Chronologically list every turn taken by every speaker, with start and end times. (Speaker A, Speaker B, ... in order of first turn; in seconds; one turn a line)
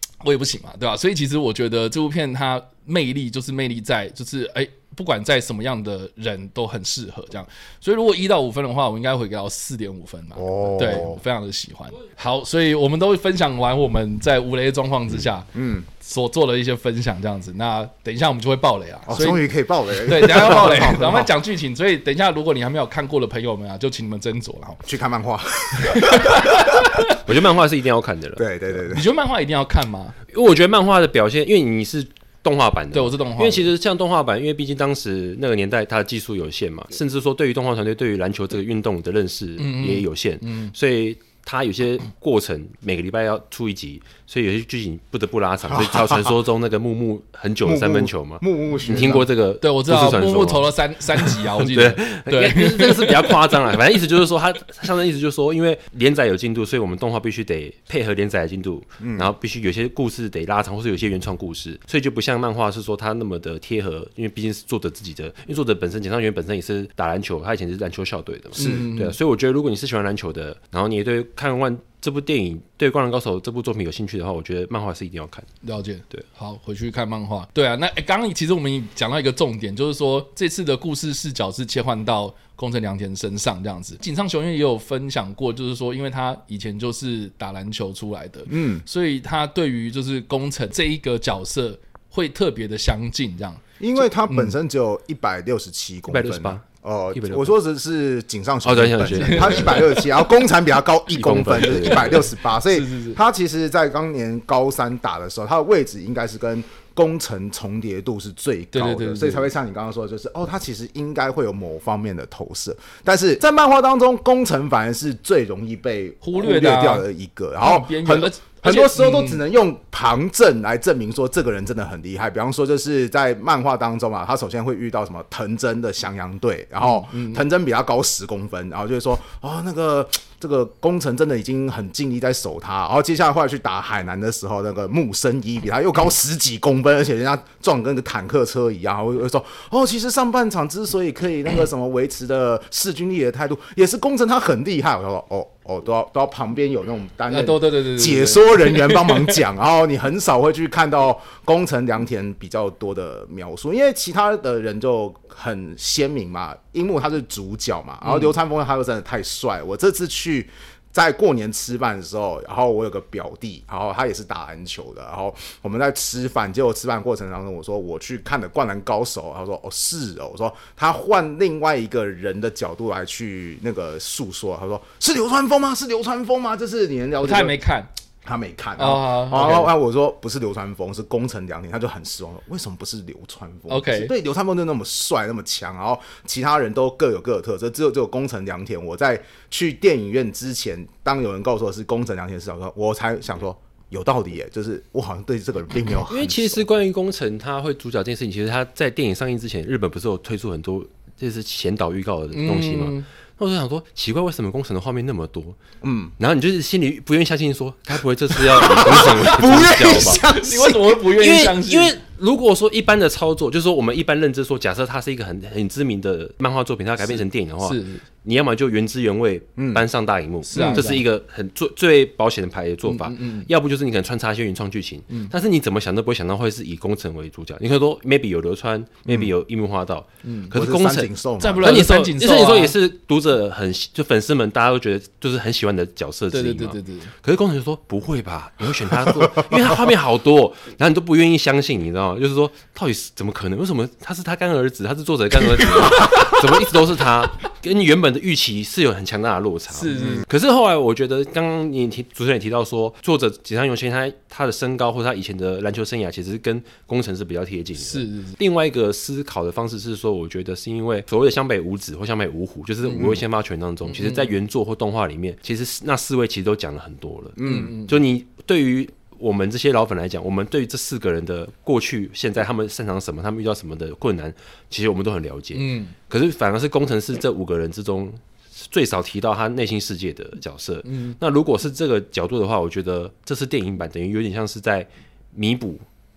Speaker A: 0.2-19.4
Speaker B: 10.3-11.2
Speaker B: 15.5-15.8
Speaker B: 19.1-21.3
Speaker A: 20.0-24.8
Speaker B: 24.9-26.9
Speaker A: 25.8-26.9
Speaker C: 27.2-28.4
Speaker B: 28.4-29.0
Speaker A: 28.9-30.1
Speaker C: 30.3-75.5
Speaker A: 32.9-33.7
Speaker A: 39.6-40.7
Speaker B: 45.7-46.3
Speaker B: 47.6-49.3
Speaker A: 49.6-53.6
Speaker B: 59.0-59.3
Speaker B: 68.5-68.9
Speaker A: 68.6-69.1
Speaker A: 75.6-93.6
Speaker B: 88.5-88.8
Speaker B: 93.8-177.6
Speaker C: 96.1-97.5
Speaker C: 98.6-100.0
Speaker A: 99.2-100.1
Speaker C: 101.1-102.2
Speaker A: 101.7-103.2
Speaker A: 108.7-109.5
Speaker A: 116.2-117.0
Speaker A: 117.6-119.4
Speaker A: 126.8-127.4
Speaker A: 147.3-149.4
Speaker A: 158.0-158.3
Speaker A: 177.2-177.9
Speaker B: 178.2-196.7
Speaker A: 178.8-179.7
Speaker A: 183.7-184.1
Speaker C: 196.1-205.6
Speaker A: 202.3-203.0
Speaker B: 205.8-206.1
Speaker C: 206.2-210.2
Speaker B: 208.5-211.0
Speaker A: 209.0-211.9
Speaker C: 211.2-231.1
Speaker A: 217.6-218.0
Speaker B: 219.6-219.8
Speaker A: 220.5-221.0
Speaker B: 220.5-220.8
Speaker A: 222.9-223.5
Speaker A: 230.2-230.5
Speaker B: 230.5-231.8
Speaker A: 231.4-232.7
Speaker C: 231.6-285.8
Speaker A: 236.3-237.1
Speaker A: 249.7-250.2
Speaker B: 249.9-250.2
Speaker A: 257.8-258.4
Speaker B: 262.9-263.2
Speaker A: 263.9-264.4
Speaker B: 267.4-267.8
Speaker A: 267.4-267.9
Speaker A: 275.5-275.9
Speaker A: 280.8-281.1